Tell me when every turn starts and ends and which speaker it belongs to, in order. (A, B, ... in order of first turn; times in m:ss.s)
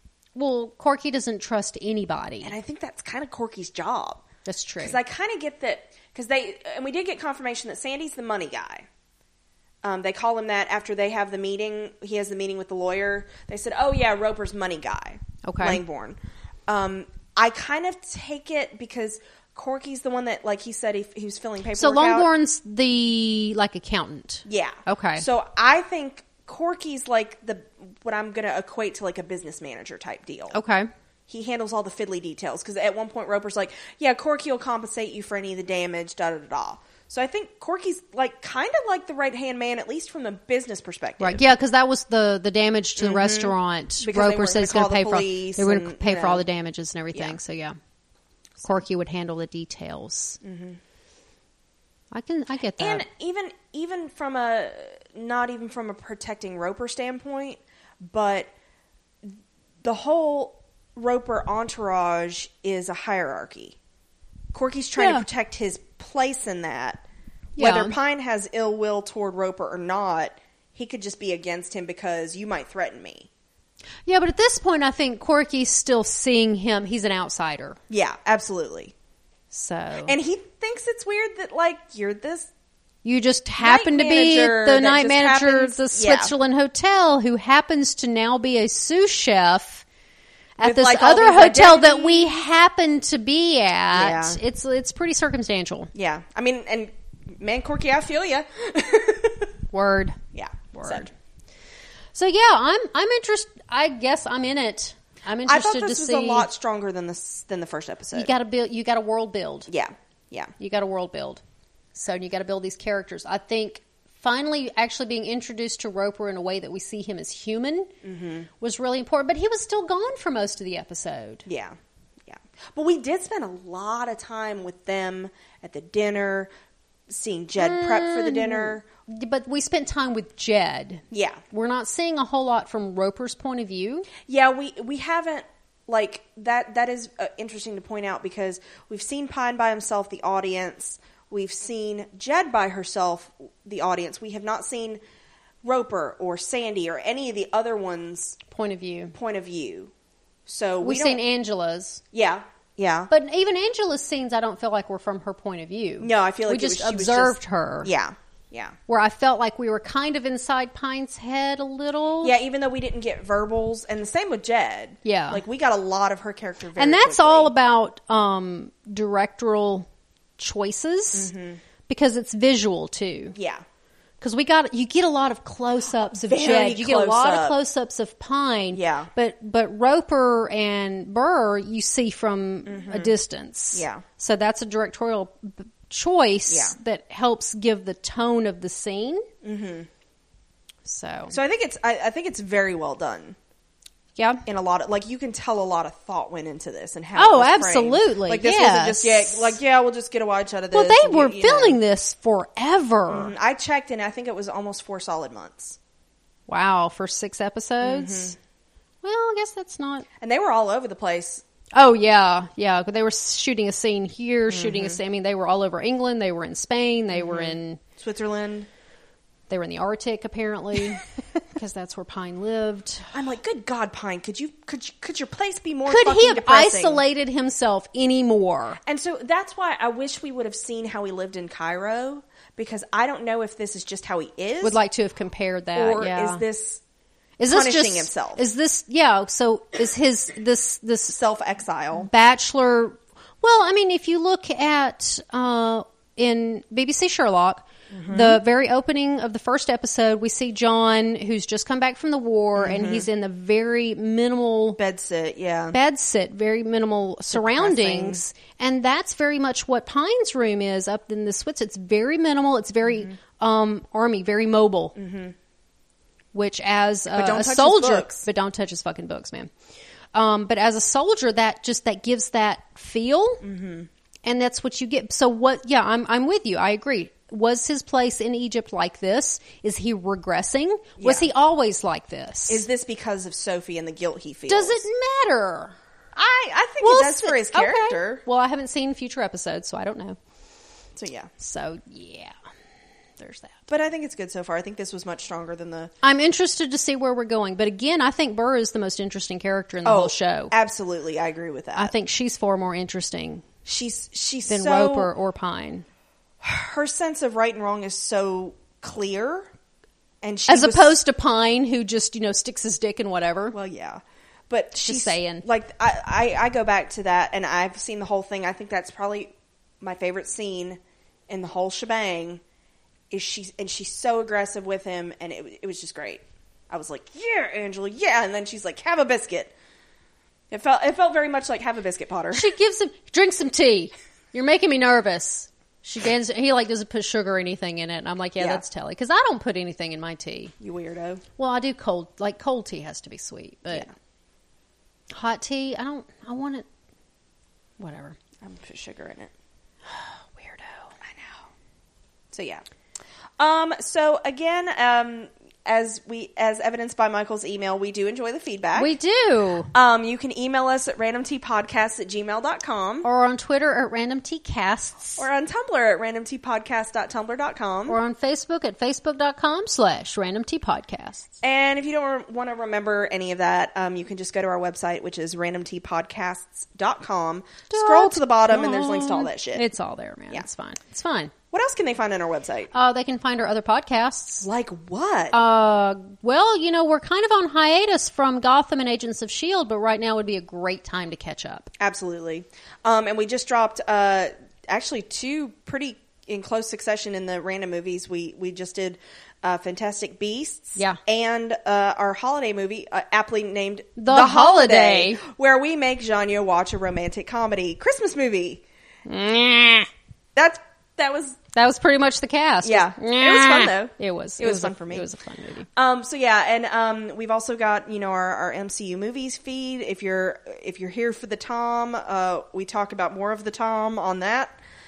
0:00.4-0:02.5 A
0:02.4-0:04.2 B
0:04.4-0:05.0 A
0:04.8-0:08.9 B
0:09.8-0:22.3 B
0:15.4-0:15.8 A
0:21.8-0:25.2 A
0:24.5-0:30.6 B
0:30.5-0:30.9 A
0:31.3-0:41.4 B
0:41.2-0:47.8 A
0:43.0-0:46.4 B
0:48.6-0:50.4 A
0:50.4-0:50.8 B
0:52.1-0:53.1 A
0:52.8-0:58.5 B
0:59.2-1:03.8 B
1:04.5-1:07.0 B
1:05.0-1:05.3 A
1:07.6-1:08.0 A
1:07.6-1:13.3 B
1:14.1-1:17.8 A
1:17.9-1:18.9 B
1:19.5-1:20.2 A
1:20.0-1:22.5 B
1:23.0-1:29.8 A
1:23.6-1:26.3 B
1:30.6-1:35.9 A
1:30.6-1:32.4 B
1:33.9-1:34.4 B
1:36.0-1:39.5 B
1:39.7-1:40.2 A
1:40.3-1:41.1 B
1:40.7-1:41.1 A
1:42.2-1:46.5 A
1:45.4-1:48.3 B
1:48.1-1:49.7 A
1:49.7-1:50.5 B
1:50.6-1:51.4 A
1:51.9-1:57.9 A
1:58.0-1:58.5 B
1:58.6-2:01.4 A
2:01.5-2:01.8 B
2:02.3-2:06.5 B
2:07.1-2:08.8 B
2:07.6-2:14.1 A
2:11.1-2:11.4 B
2:14.3-2:25.0 B
2:25.6-2:28.4 B
2:28.5-2:29.1 A
2:29.1-2:29.9 B
2:30.5-2:31.2 B
2:30.8-2:32.0 A
2:32.1-2:33.1 B
2:33.1-2:37.9 A
2:36.0-2:38.8 B
2:38.9-2:42.4 A
2:42.2-2:47.5 B
2:45.0-2:45.4 A
2:46.8-2:49.9 A
2:50.4-2:51.3 A
2:51.1-2:51.6 B
2:51.9-2:53.4 A
2:53.4-2:53.6 B
2:54.2-3:09.3 A
2:56.3-2:57.6 B
2:58.7-2:59.1 B
3:02.7-3:03.1 B
3:03.7-3:04.0 B
3:06.5-3:06.8 B
3:09.4-3:09.9 B
3:10.8-3:11.4 A
3:11.3-3:13.4 B
3:14.2-3:14.4 A
3:14.5-3:21.8 B
3:17.2-3:19.6 A
3:20.7-3:23.3 A
3:23.1-3:25.8 B
3:26.5-3:28.3 A
3:27.8-3:28.4 B
3:29.0-3:30.1 A
3:30.2-3:31.4 B
3:31.7-3:37.8 A
3:34.5-3:35.0 B
3:37.1-3:38.7 B
3:39.5-3:43.1 A
3:43.1-3:47.0 B
3:45.9-3:48.8 A
3:48.9-3:54.8 B
3:54.6-3:56.4 A
3:55.8-3:56.8 B
3:57.4-4:01.2 A
3:57.5-3:58.4 B
4:01.1-4:02.1 B
4:02.0-4:14.8 A
4:07.9-4:08.4 B
4:12.6-4:13.1 B
4:14.8-4:15.8 B
4:15.7-4:25.0 A
4:17.3-4:18.2 B
4:22.9-4:23.1 B
4:25.0-4:25.3 B
4:26.3-4:29.5 A
4:27.1-4:28.3 B
4:30.1-4:33.4 A
4:33.4-4:33.9 B
4:34.2-4:42.7 A
4:41.0-4:41.3 B
4:42.5-4:44.9 B
4:44.5-4:45.7 A
4:46.2-4:48.2 B
4:46.8-4:50.2 A
4:51.0-4:51.3 B
4:51.4-4:52.3 A
4:53.2-4:53.6 A
4:53.7-4:55.9 B
4:56.0-5:00.5 A
4:59.8-5:01.9 B
5:01.8-5:03.5 A
5:03.7-5:05.1 B
5:04.5-5:05.9 A
5:06.4-5:09.5 B
5:10.2-5:11.0 B
5:10.5-5:13.6 A
5:13.5-5:22.4 B
5:14.8-5:15.4 A
5:23.1-5:29.5 B
5:30.5-5:32.5 B
5:32.3-5:40.6 A
5:40.6-5:41.2 B
5:41.4-5:43.9 A
5:45.1-5:46.7 A
5:47.8-5:48.2 A
5:48.4-5:49.3 B
5:49.9-5:50.9 A
5:51.0-5:51.4 B
5:52.3-5:52.6 B
5:53.4-5:58.9 B
5:58.8-5:59.7 A
5:59.7-6:03.1 B
6:03.0-6:05.3 A
6:05.2-6:08.0 B
6:07.9-6:11.3 A
6:11.4-6:19.6 B
6:17.7-6:21.3 A
6:21.5-6:22.7 B
6:22.7-6:24.5 A
6:24.4-6:25.4 B
6:25.3-6:31.7 A
6:31.8-6:48.6 B
6:44.0-6:45.2 A
6:49.1-6:49.9 A
6:50.4-6:51.4 B
6:51.5-6:55.7 A
6:52.6-6:55.1 B
6:55.8-7:04.5 B